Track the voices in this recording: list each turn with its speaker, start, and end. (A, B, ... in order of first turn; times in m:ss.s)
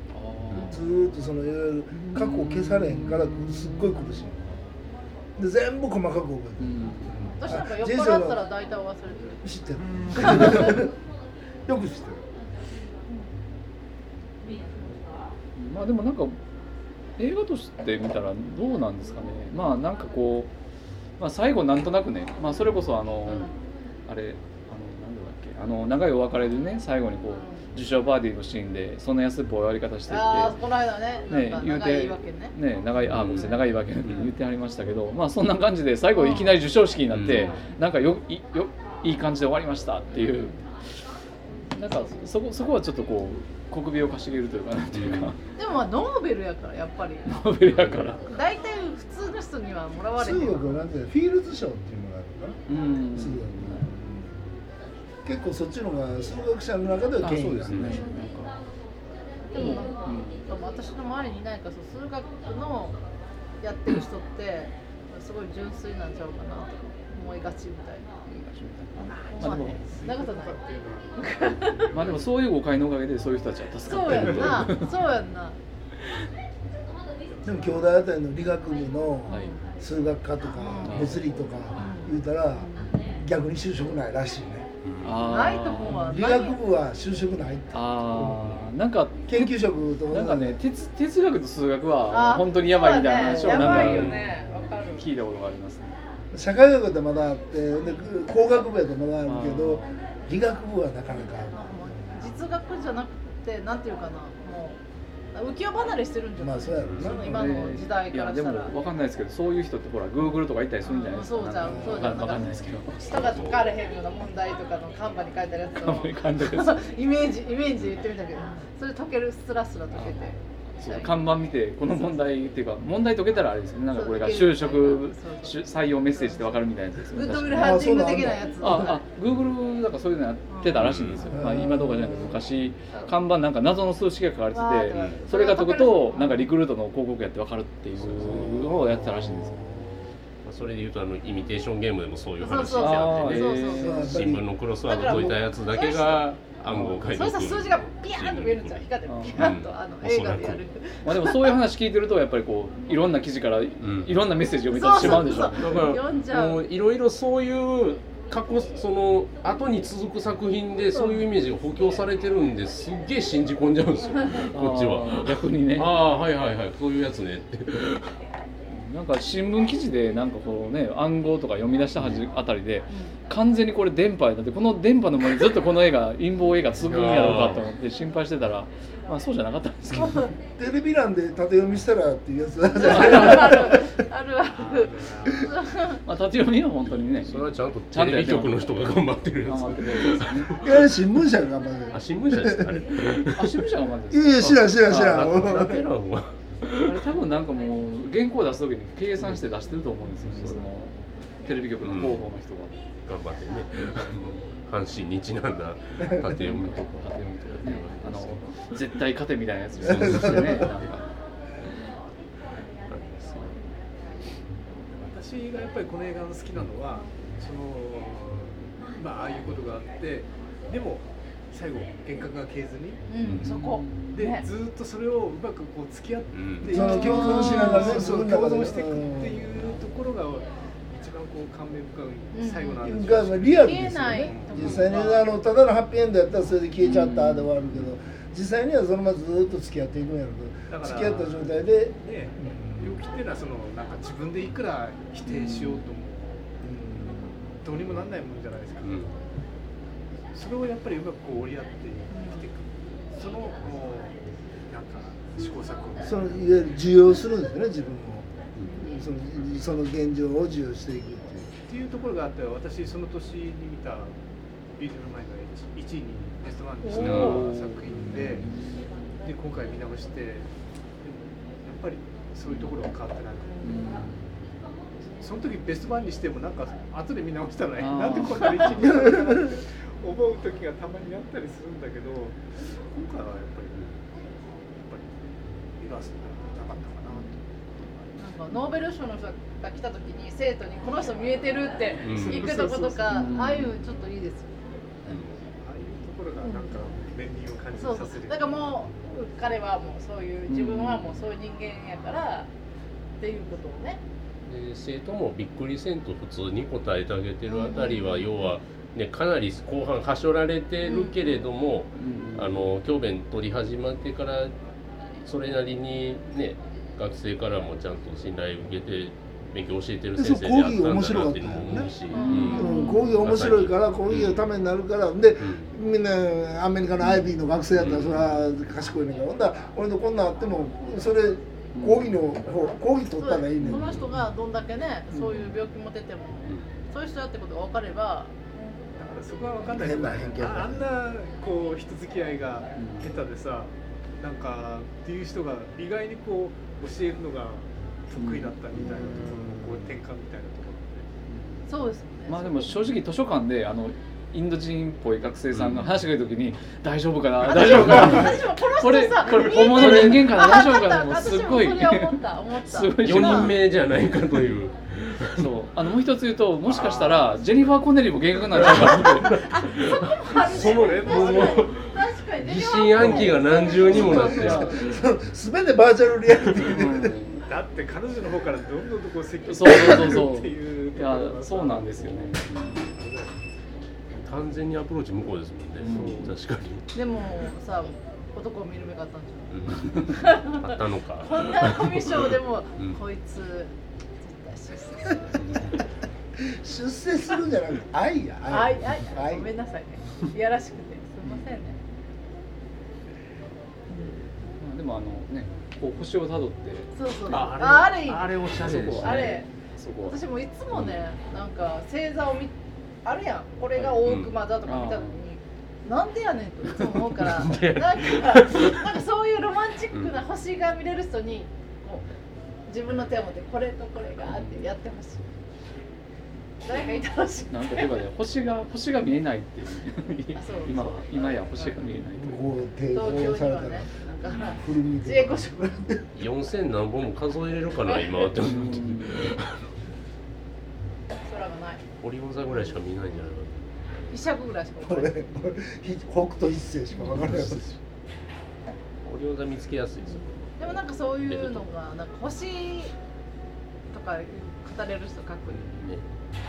0:00.1-0:00.8 A
0:00.5-0:00.8 B
0:00.6-0:04.6 C
0:02.0-0:04.2 A
0:05.4-0:08.4 C
0:06.6-0:07.4 A
0:07.4-0:09.4 B
0:09.4-0:10.9 C
0:10.2-0:10.8 B
0:11.7-0:12.2 C
0:15.6-0:16.4 A
0:17.2-0:20.5 A
0:21.2-0:23.5 A
0:23.2-0:23.5 B
0:24.1-0:30.6 A
0:30.1-0:32.6 B
0:31.3-0:40.6 A
0:33.0-0:34.3 D
0:36.2-0:36.6 B
0:37.1-0:37.6 D
0:37.3-0:37.7 B
0:41.8-0:45.4 A
0:45.0-0:45.3 D
0:45.6-0:47.3 B
0:47.3-0:48.3 A
0:47.8-0:48.2 D
0:48.3-0:50.8 B
0:50.2-0:54.4 C
0:52.7-0:53.9 A
0:55.2-0:58.2 C
0:57.2-0:58.6 A
0:57.7-0:58.0 D
0:59.5-1:03.0 B
0:59.6-1:00.5 A
1:03.6-1:08.1 B
1:08.3-1:09.8 A
1:09.0-1:10.6 B
1:09.0-1:12.2 E
1:11.2-1:12.0 B
1:11.9-1:15.0 A
1:13.8-1:15.6 B
1:14.1-1:14.6 D
1:17.3-1:17.9 E
1:17.4-1:24.7 C
1:19.3-1:19.6 B
1:20.5-1:23.2 B
1:20.8-1:21.2 A
1:24.8-1:25.4 D
1:25.0-1:26.2 A
1:25.3-1:26.6 B
1:25.8-1:28.6 C
1:27.7-1:29.5 A
1:29.3-1:30.6 C
1:30.1-1:34.4 A
1:32.1-1:35.1 B
1:33.2-1:34.1 C
1:33.6-1:34.3 D
1:34.9-1:36.0 A
1:36.3-1:42.4 C
1:39.2-1:39.9 A
1:41.5-1:44.8 B
1:45.3-1:48.7 B
1:46.4-1:47.6 C
1:46.8-1:47.2 D
1:47.3-1:53.0 A
1:50.3-2:01.2 B
1:51.6-1:52.4 C
1:53.1-1:53.7 D
1:55.8-1:56.8 A
2:00.8-2:07.8 A
2:01.8-2:02.2 B
2:03.9-2:09.0 B
2:07.5-2:08.8 C
2:08.6-2:19.8 A
2:10.5-2:11.3 B
2:10.8-2:11.2 D
2:11.3-2:12.5 C
2:14.5-2:16.5 B
2:14.9-2:15.2 D
2:18.0-2:19.1 D
2:18.1-2:20.0 C
2:20.4-2:30.6 D
2:22.4-2:24.0 B
2:22.8-2:24.4 A
2:23.8-2:25.3 C
2:24.8-2:26.3 B
2:26.7-2:27.0 A
2:27.0-2:31.6 B
2:29.1-2:29.5 A
2:31.0-2:36.0 A
2:33.8-2:34.2 D
2:34.7-2:36.6 B
2:34.9-2:48.2 D
2:41.0-2:41.2 B
2:44.5-2:46.0 A
2:48.7-3:00.3 A
2:52.9-2:53.2 B
2:56.8-2:57.7 D
3:00.0-3:00.3 B
3:00.6-3:03.9 C
3:02.7-3:06.0 B
3:04.6-3:05.5 E
3:06.0-3:08.6 A
3:07.3-3:10.9 D
3:09.5-3:10.5 A
3:10.6-3:13.0 C
3:11.9-3:13.6 D
3:13.3-3:15.3 A
3:14.1-3:15.9 C
3:14.9-3:16.8 D
3:16.8-3:22.8 A
3:20.3-3:20.6 D
3:21.8-3:22.3 D
3:23.1-3:28.5 D
3:26.3-3:31.1 A
3:29.8-3:30.9 D
3:30.0-3:30.5 C
3:32.9-3:33.6 D
3:34.9-3:43.0 E
3:43.1-3:44.4 B
3:43.2-3:43.5 D
3:43.3-3:44.2 A
3:44.1-3:55.2 E
3:46.3-3:46.7 D
3:46.7-3:49.6 C
3:46.7-3:48.1 B
3:47.4-3:47.8 A
3:52.3-3:52.9 B
3:52.8-4:03.0 C
3:53.6-3:55.2 B
3:54.5-3:54.9 D
3:56.8-3:57.5 A
4:00.7-4:06.5 E
4:05.2-4:05.9 A
4:06.6-4:07.4 C
4:07.6-4:09.1 E
4:08.8-4:09.1 D
4:10.3-4:16.7 E
4:12.1-4:12.4 B
4:16.0-4:21.5 C
4:18.7-4:19.0 B
4:21.7-4:24.2 E
4:24.8-4:28.5 E
4:26.9-4:27.3 B
4:26.9-4:28.9 A
4:26.9-4:27.5 D
4:29.2-4:30.5 E
4:31.0-4:33.8 E
4:32.5-4:32.7 A
4:33.6-4:34.2 A
4:35.2-4:43.8 E
4:37.8-4:38.8 A
4:38.8-4:39.5 C
4:44.7-4:47.4 E
4:48.2-4:55.2 B
4:52.0-4:52.6 D
4:52.1-4:53.2 E
4:53.1-4:53.8 A
4:55.1-4:55.4 D
4:55.6-4:58.8 E
4:56.4-4:56.9 B
4:57.7-5:02.5 B
5:00.5-5:01.2 A
5:03.2-5:04.0 B
5:04.5-5:14.6 D
5:07.5-5:08.4 B
5:10.8-5:11.5 B
5:12.0-5:12.5 A
5:15.2-5:24.5 D
5:20.2-5:21.9 C
5:22.1-5:23.1 B
5:22.3-5:23.0 A
5:22.5-5:34.1 C
5:25.4-5:25.7 D
5:27.8-5:28.3 D
5:31.7-5:32.2 A
5:33.2-5:38.3 B
5:33.6-5:34.0 A
5:35.1-5:35.6 A
5:36.5-5:36.7 D
5:39.0-5:51.1 E
5:39.7-5:40.8 C
5:42.8-5:43.1 A
5:48.2-5:48.6 A
5:48.8-5:49.8 C
5:51.3-5:51.7 A
5:51.7-5:52.8 B
5:52.3-6:03.6 A
5:55.5-5:55.9 D
5:57.4-6:03.5 B
5:58.0-5:58.3 D
5:59.3-6:00.5 D
6:03.0-6:05.5 D
6:05.3-6:09.5 A
6:06.6-6:07.7 E
6:08.5-6:14.8 D
6:08.8-6:14.9 B
6:10.4-6:11.9 E
6:13.0-6:13.3 A
6:13.8-6:14.9 A
6:13.9-6:17.2 C
6:16.6-6:17.4 A
6:17.4-6:23.5 E
6:19.5-6:22.9 A
6:24.2-6:26.9 D
6:25.8-6:26.4 A
6:25.8-6:26.3 E
6:26.9-6:35.8 B
6:29.5-6:33.0 D
6:35.4-6:35.8 D
6:36.4-6:39.5 C
6:38.5-6:41.8 B
6:44.6-6:47.5 A
6:47.0-6:49.5 B
6:47.3-6:49.4 D
6:48.6-6:50.2 A
6:50.0-7:02.1 B
6:50.7-6:51.0 D
6:53.8-6:54.0 A
6:54.0-6:54.4 D
6:54.7-6:55.2 A
6:56.8-6:59.0 D
7:02.7-7:05.2 B
7:04.3-7:04.7 A
7:06.6-7:07.9 B
7:07.5-7:12.6 A
7:10.3-7:11.8 B
7:12.1-7:13.9 C
7:12.9-7:15.8 B
7:14.6-7:16.1 C
7:16.2-7:19.6 D
7:18.4-7:19.4 A
7:21.2-7:21.8 B
7:22.0-7:24.2 D
7:24.1-7:25.2 B
7:24.8-7:27.6 C
7:27.0-7:27.8 D
7:29.0-7:31.7 D
7:30.2-7:33.0 B
7:33.9-7:35.8 B
7:35.5-7:36.0 D